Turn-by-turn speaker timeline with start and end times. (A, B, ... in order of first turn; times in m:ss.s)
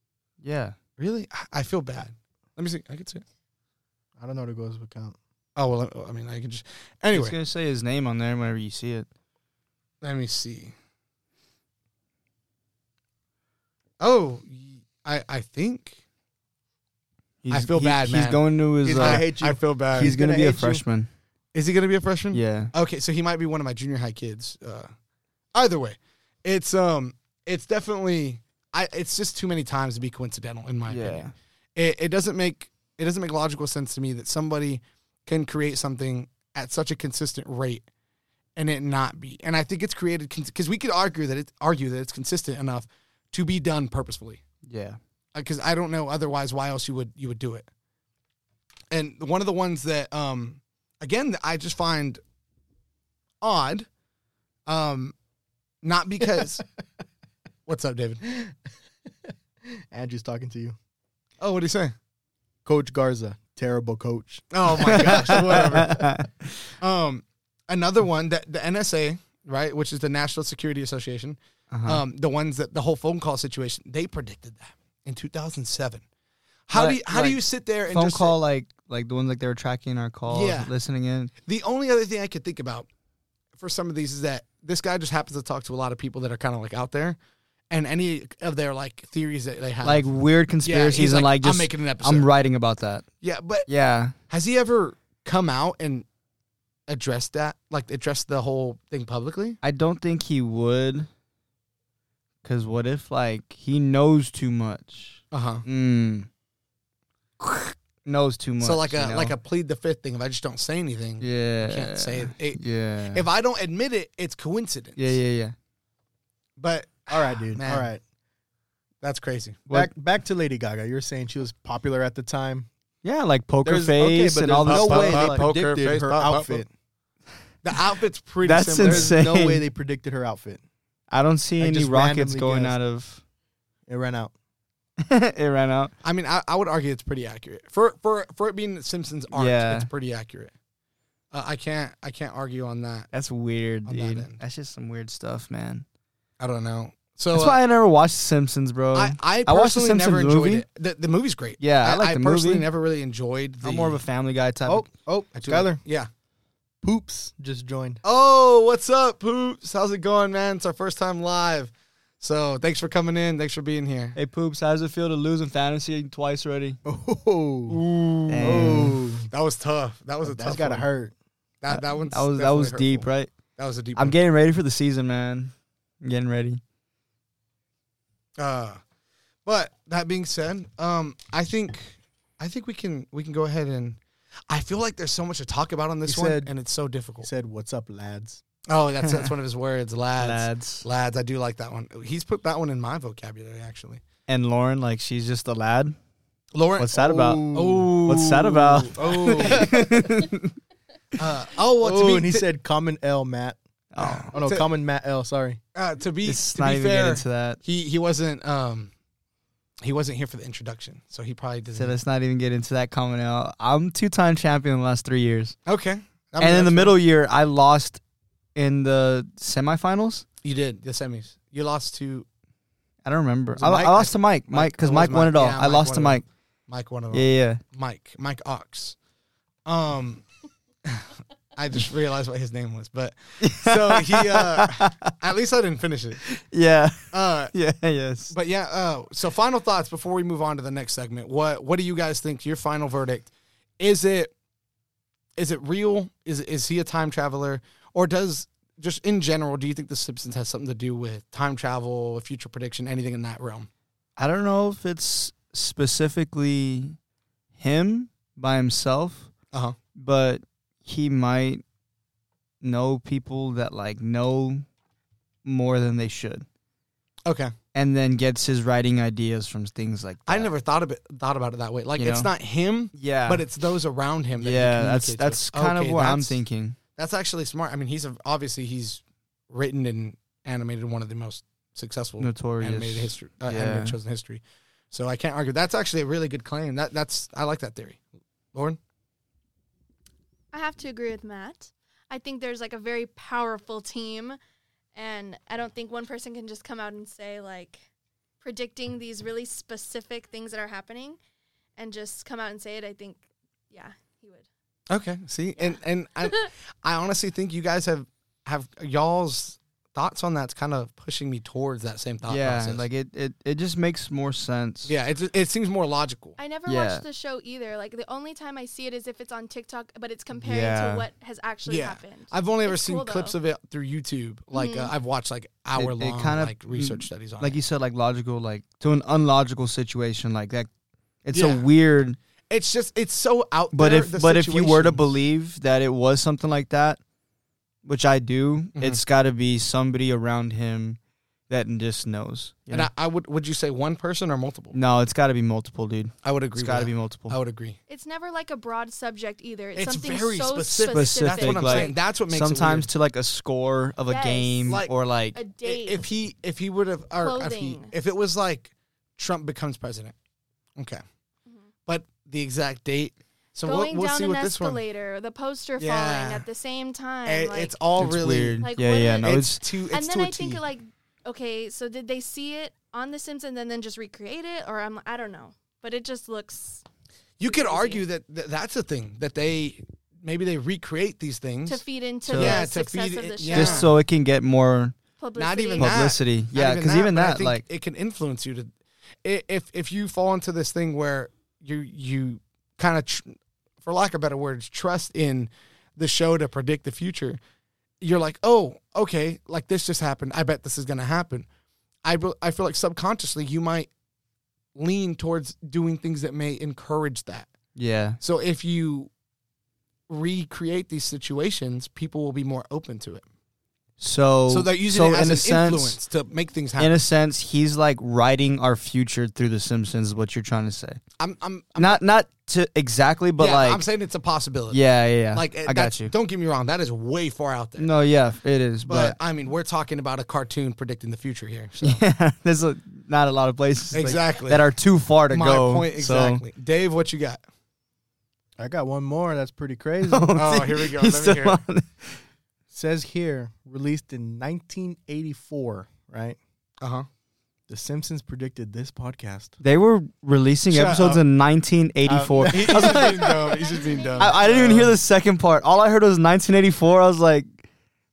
0:00.4-0:00.8 A
0:01.0-0:03.2 B
0:04.2-0:05.2 C
0:05.6-0:07.3 B
0:07.1-0:09.1 A
0:10.0-0:10.7 B
0:14.0-0:16.0 B
0:17.4-0:19.3 A
0:17.5-0:18.4 B
0:18.8-0:20.8 C
0:18.9-0:20.1 B
0:20.0-0:21.1 A
0:21.5-0:24.9 B
0:22.3-0:22.7 A
0:25.5-0:37.8 B
0:30.9-0:31.3 A
0:38.6-0:44.4 B
0:44.6-0:45.0 A
0:45.3-0:47.7 B
0:48.9-0:52.2 B
0:53.4-0:53.9 B
0:54.7-0:55.1 B
0:55.8-0:56.6 B
0:57.7-0:58.2 B
0:58.2-0:58.6 C
0:59.6-1:00.8 C
1:01.4-1:01.9 B
1:02.6-1:05.4 C
1:04.5-1:06.0 B
1:04.9-1:06.6 A
1:06.8-1:16.0 B
1:11.7-1:12.0 A
1:16.7-1:18.4 B
1:16.7-1:21.3 A
1:20.3-1:20.7 B
1:21.4-1:22.9 B
1:23.6-1:27.2 B
1:27.7-1:32.3 B
1:29.8-1:33.0 A
1:33.2-1:33.7 B
1:33.7-1:34.1 A
1:34.3-1:36.0 B
1:36.9-1:39.6 B
1:39.6-1:41.1 A
1:42.4-1:46.3 A
1:45.3-1:45.6 B
1:47.4-1:49.3 A
1:48.6-1:55.2 B
1:51.2-1:53.2 A
1:55.0-1:55.5 A
1:56.6-1:57.9 B
1:57.1-1:58.0 C
1:59.0-1:59.6 B
1:59.7-2:02.7 C
2:03.0-2:05.5 A
2:03.6-2:06.7 C
2:04.6-2:06.6 B
2:07.6-2:09.2 B
2:08.4-2:09.6 A
2:08.8-2:10.6 C
2:11.1-2:13.2 A
2:11.6-2:12.8 C
2:13.9-2:14.3 C
2:15.0-2:15.9 A
2:16.0-2:20.5 B
2:19.3-2:19.9 A
2:21.3-2:23.1 B
2:23.1-2:25.8 A
2:23.8-2:24.4 B
2:26.4-2:27.6 B
2:27.3-2:30.6 A
2:28.9-2:34.0 B
2:31.6-2:32.7 A
2:33.6-2:34.9 A
2:34.6-2:35.8 C
2:35.4-2:36.1 B
2:36.8-2:38.0 C
2:38.0-2:44.2 B
2:44.2-2:46.8 A
2:46.8-2:47.8 C
2:47.7-2:50.9 B
2:48.3-2:49.0 A
2:48.4-2:49.3 C
2:50.2-2:51.1 C
2:51.6-2:54.2 B
2:51.7-2:53.3 A
2:54.0-2:56.6 A
2:58.4-2:58.8 B
2:59.4-3:07.3 B
3:06.1-3:06.5 C
3:07.2-3:08.4 C
3:08.7-3:14.0 B
3:09.0-3:09.3 A
3:10.2-3:10.8 A
3:14.3-3:16.0 A
3:16.5-3:17.9 C
3:16.8-3:17.5 A
3:17.5-3:19.8 B
3:18.0-3:20.5 A
3:19.0-3:20.0 C
3:21.2-3:22.5 B
3:21.8-3:23.6 C
3:23.9-3:24.3 A
3:24.0-3:24.7 B
3:24.3-3:25.6 C
3:25.7-3:28.9 B
3:26.2-3:27.6 A
3:29.8-3:31.9 B
3:31.7-3:35.6 A
3:35.6-3:37.0 B
3:36.4-3:38.0 A
3:38.5-3:40.2 A
3:40.4-3:42.2 B
3:43.0-3:46.2 A
3:43.6-3:49.0 B
3:47.1-3:47.6 A
3:49.6-3:50.2 B
3:50.8-3:56.3 B
3:53.4-3:55.1 A
3:56.3-3:58.3 A
3:57.1-3:57.5 B
3:58.3-4:04.3 B
4:05.4-4:13.7 B
4:14.2-4:17.0 A
4:17.5-4:19.3 A
4:19.9-4:21.6 A
4:22.6-4:24.6 A
4:25.4-4:26.4 A
4:27.2-4:27.5 B
4:27.7-4:30.5 A
4:30.3-4:36.4 B
4:32.0-4:32.3 A
4:32.9-4:33.4 A
4:34.4-4:36.8 A
4:37.0-4:48.0 B
4:42.2-4:44.0 A
4:50.5-4:54.4 D
4:54.9-4:57.8 D
4:58.4-5:01.2 D
5:01.8-5:04.5 D
5:04.9-5:12.8 B
5:12.2-5:14.9 A
5:14.8-5:16.4 B
5:16.4-5:23.3 D
5:16.7-5:17.0 A
5:20.4-5:21.1 A
5:21.6-5:27.6 B
5:24.5-5:24.9 D
5:25.7-5:30.7 A
5:31.2-5:32.2 A
5:31.3-5:31.7 B
5:32.5-5:35.1 B
5:33.7-5:37.0 A
5:37.8-5:41.0 A
5:38.8-5:39.0 B
5:41.5-5:42.9 A
5:42.7-5:44.8 B
5:44.7-5:47.4 A
5:46.2-5:47.8 B
5:47.9-5:51.9 D
5:49.7-5:52.9 B
5:50.9-5:55.4 A
5:54.1-5:54.8 D
5:55.3-5:56.0 D
5:55.6-6:00.1 B
5:57.2-5:57.9 D
6:01.9-6:04.8 B
6:03.6-6:07.7 D
6:05.8-6:06.4 B
6:07.2-6:10.6 B
6:08.0-6:09.6 A
6:08.6-6:09.3 D
6:09.9-6:16.8 D
6:17.4-6:23.9 B
6:17.4-6:18.0 D
6:21.6-6:23.9 D
6:22.3-6:22.6 A
6:23.5-6:25.0 A
6:25.2-6:25.9 D
6:25.4-6:28.7 B
6:25.8-6:27.6 A
6:29.2-6:37.4 B
6:38.0-6:41.4 B
6:42.0-6:43.9 B
6:44.7-6:47.5 B
6:47.8-6:48.2 A
6:48.2-6:49.1 B
6:50.1-6:53.2 B
6:54.0-6:56.0 A
6:54.5-6:56.9 B
6:56.8-7:01.0 A
7:01.2-7:02.0 B
7:01.8-7:03.8 A
7:03.4-7:04.8 B
7:04.7-7:06.1 A
7:05.3-7:07.9 B
7:07.8-7:09.2 A
7:08.9-7:12.0 B
7:11.8-7:16.4 A
7:13.9-7:14.6 B
7:15.3-7:17.4 B
7:18.6-7:20.3 C
7:20.0-7:22.2 A
7:20.4-7:21.6 B
7:22.7-7:26.4 C
7:26.8-7:27.1 B
7:27.7-7:29.6 C
7:29.6-7:33.3 A
7:30.7-7:31.2 B
7:32.0-7:33.0 C
7:32.5-7:35.0 B
7:32.8-7:34.5 D
7:34.2-7:37.5 A